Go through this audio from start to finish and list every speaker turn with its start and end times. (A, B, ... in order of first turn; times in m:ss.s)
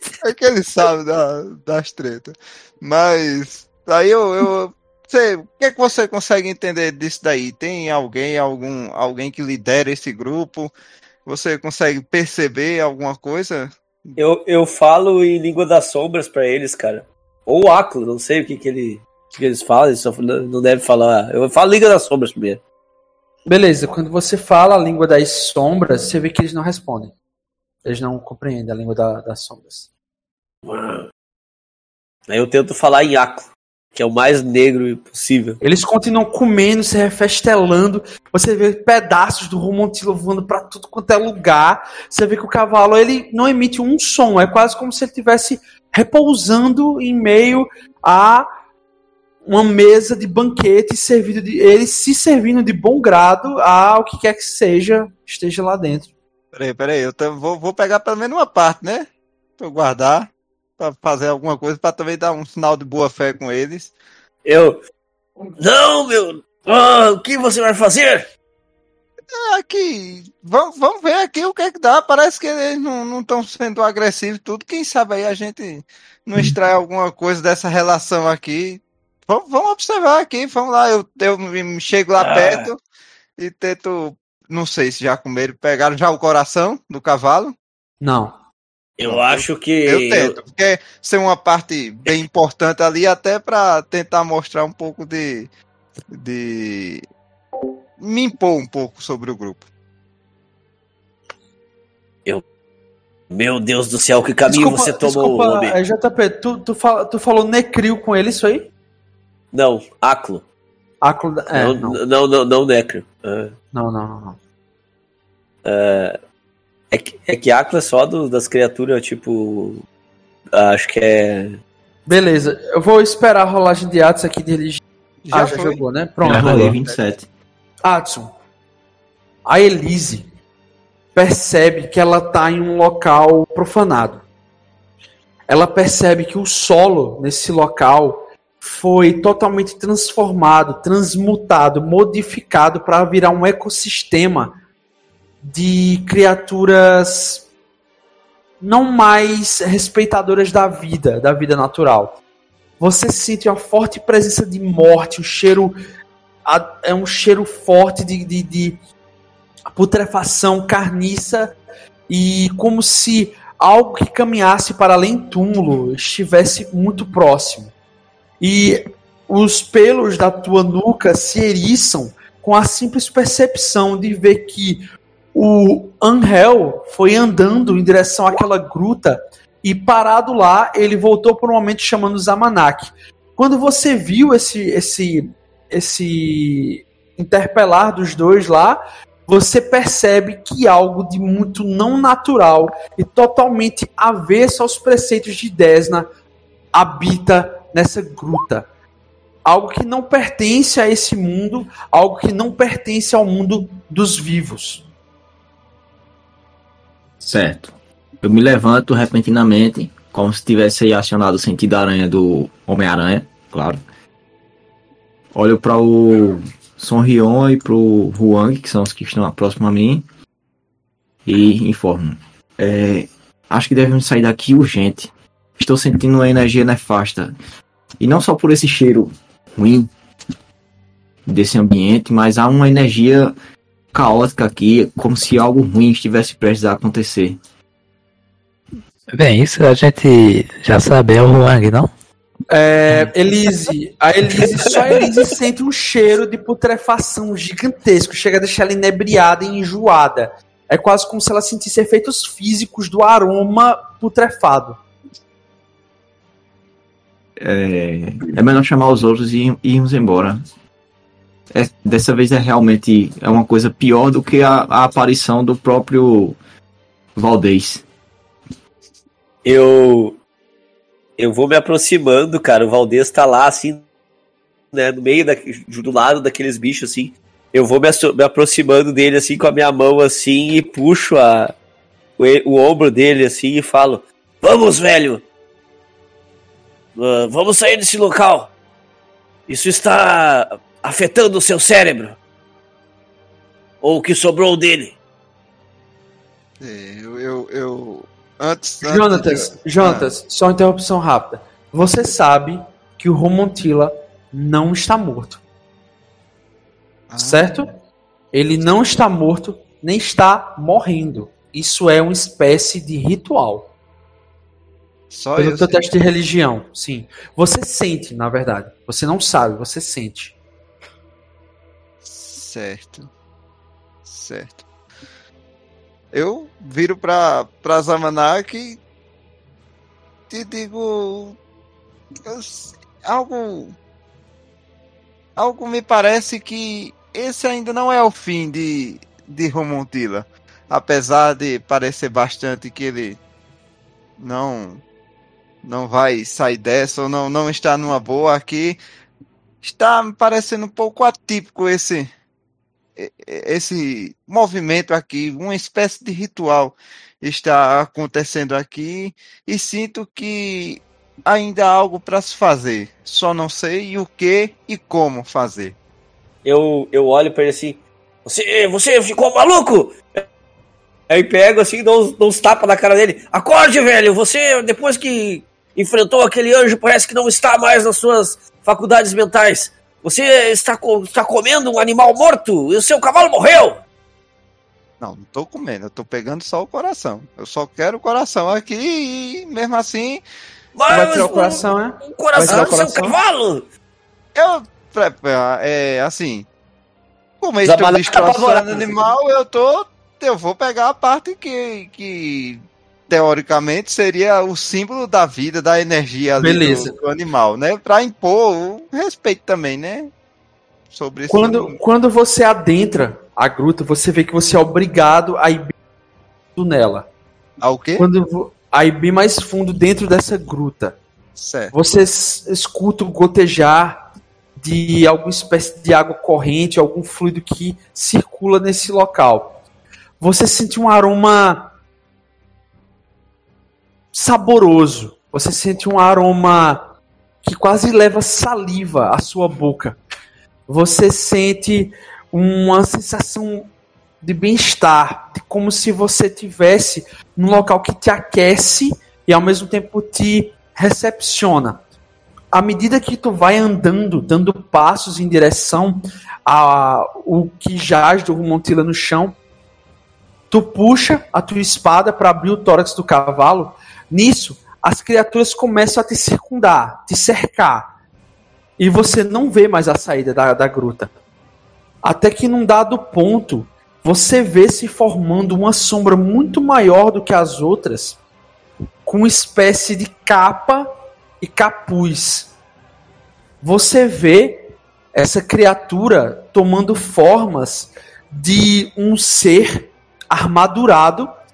0:00.2-0:10.7 A
0:11.2-0:14.2 A
0:14.2-0:22.6 B
0:23.4-0:27.1 C
0:27.8-0:29.9 C
0:30.6-0:31.1 B
0:32.3-0:35.6 B
0:35.6-0:48.5 C
0:49.4-0:56.1 C
0:56.5-1:03.9 A
1:04.4-1:04.8 B
1:05.6-1:08.3 B
1:09.3-1:22.8 A
1:22.2-1:22.7 B
1:23.4-1:27.6 A
1:28.0-1:28.3 C
1:29.0-1:30.4 B
1:29.0-1:35.5 A
1:36.1-1:37.0 A
1:38.0-1:39.6 A
1:43.3-1:45.8 B
1:44.5-1:48.7 C
1:49.5-1:50.4 B
1:51.0-1:52.0 C
1:51.5-1:53.5 B
1:53.7-1:54.4 C
1:55.6-1:56.2 B
1:56.9-1:59.8 B
2:00.5-2:01.6 B
2:02.1-2:06.8 C
2:05.2-2:05.8 A
2:06.2-2:07.3 D
2:06.4-2:07.0 A
2:07.8-2:08.3 C
2:09.4-2:10.3 C
2:11.1-2:14.2 C
2:15.5-2:24.6 C
2:25.4-2:27.4 C
2:28.6-2:32.2 C
2:32.8-2:35.8 C
2:36.4-2:38.8 C
2:39.7-2:41.6 C
2:42.1-2:47.7 C
2:48.4-3:16.1 C
3:16.7-3:18.6 C
3:19.4-3:24.8 C
3:27.2-3:33.8 D
3:35.3-3:40.0 D
3:41.2-3:47.3 D
3:48.0-3:49.9 D
3:51.2-3:53.3 D
3:53.9-3:57.4 D
3:59.1-4:01.9 E
4:02.5-4:14.8 C
4:17.4-4:20.4 D
4:21.5-4:26.4 D
4:27.2-4:27.8 D
4:29.4-4:30.2 B
4:31.2-4:33.8 B
4:34.7-4:41.5 B
4:42.2-4:45.2 B
4:47.0-4:48.5 B
4:49.5-4:52.2 B
4:53.8-4:55.0 B
4:56.6-5:00.1 A
4:58.8-5:05.4 C
5:07.1-5:07.5 A
5:07.2-5:07.7 C
5:08.3-5:13.7 C
5:15.1-5:15.7 A
5:15.4-5:20.4 C
5:22.0-5:23.1 A
5:24.0-5:24.6 A
5:26.1-5:28.8 A
5:30.3-5:31.4 A
5:32.2-5:33.8 A
5:35.4-5:43.2 A
5:44.2-5:44.8 A
5:45.6-5:48.8 A
5:49.6-5:52.1 A
5:53.0-6:05.8 A
6:06.4-6:10.2 B
6:11.1-6:23.8 B
6:25.0-6:30.2 A
6:30.7-6:33.6 B
6:30.9-6:33.2 C
6:32.4-6:32.7 A
6:34.3-6:36.5 A
6:37.4-6:50.1 A
6:37.6-6:39.0 B
6:46.4-6:46.9 C
6:50.9-6:51.7 A
6:51.3-6:55.7 C
6:56.6-6:57.1 C
6:57.6-6:58.1 A
6:58.0-7:01.0 C
7:01.4-7:01.7 A
7:01.7-7:04.0 C
7:04.6-7:09.6 C
7:10.2-7:11.7 C
7:14.1-7:16.9 C
7:17.4-7:20.0 C
7:20.7-7:23.7 C
7:24.2-7:31.8 C
7:32.5-7:39.4 C
7:40.5-7:47.9 C
7:48.8-7:51.1 C
7:52.0-7:58.2 C
7:59.0-8:00.9 C
8:01.4-8:02.5 C
8:03.6-8:11.3 C